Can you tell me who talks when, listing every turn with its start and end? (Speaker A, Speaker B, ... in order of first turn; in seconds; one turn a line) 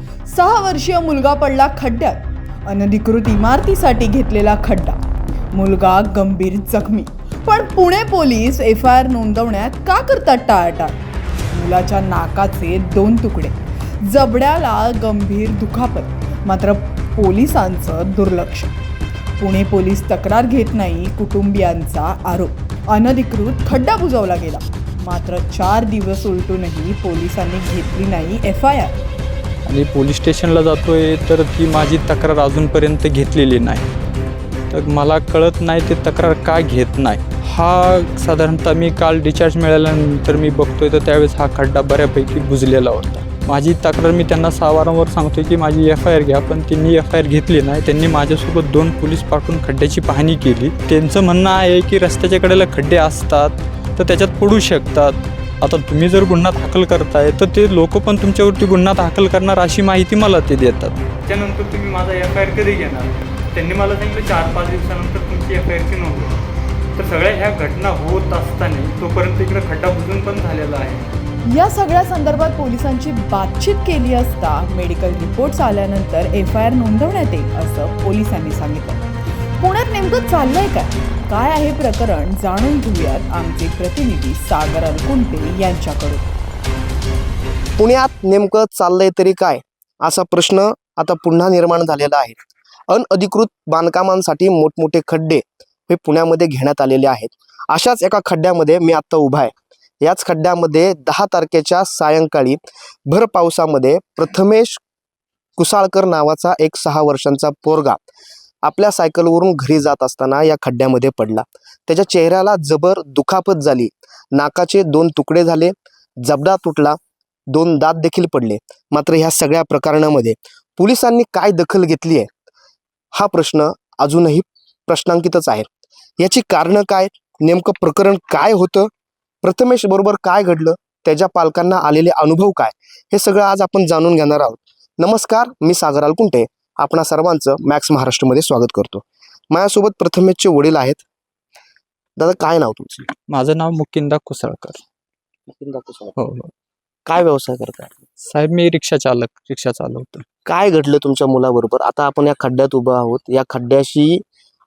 Speaker A: 0.2-5.0
Speaker A: 5.5-11.0
Speaker A: 11.5-18.7
Speaker A: 19.4-28.9
Speaker B: 29.6-33.9
Speaker B: 34.7-66.3
Speaker B: 67.0-71.1
Speaker A: 71.5-79.0
Speaker A: 79.6-86.3
Speaker C: 87.8-104.8
Speaker C: 105.6-108.0
Speaker C: 108.6-117.0
Speaker C: 117.5-122.3
Speaker C: 123.1-125.7
Speaker C: 126.2-128.9
Speaker C: 129.4-141.0
Speaker C: 142.2-143.1
Speaker B: 143.3-144.8
Speaker C: 145.5-146.2
Speaker B: 146.2-146.5
Speaker C: 147.1-148.0
Speaker B: 148.2-150.2
Speaker C: 150.4-154.2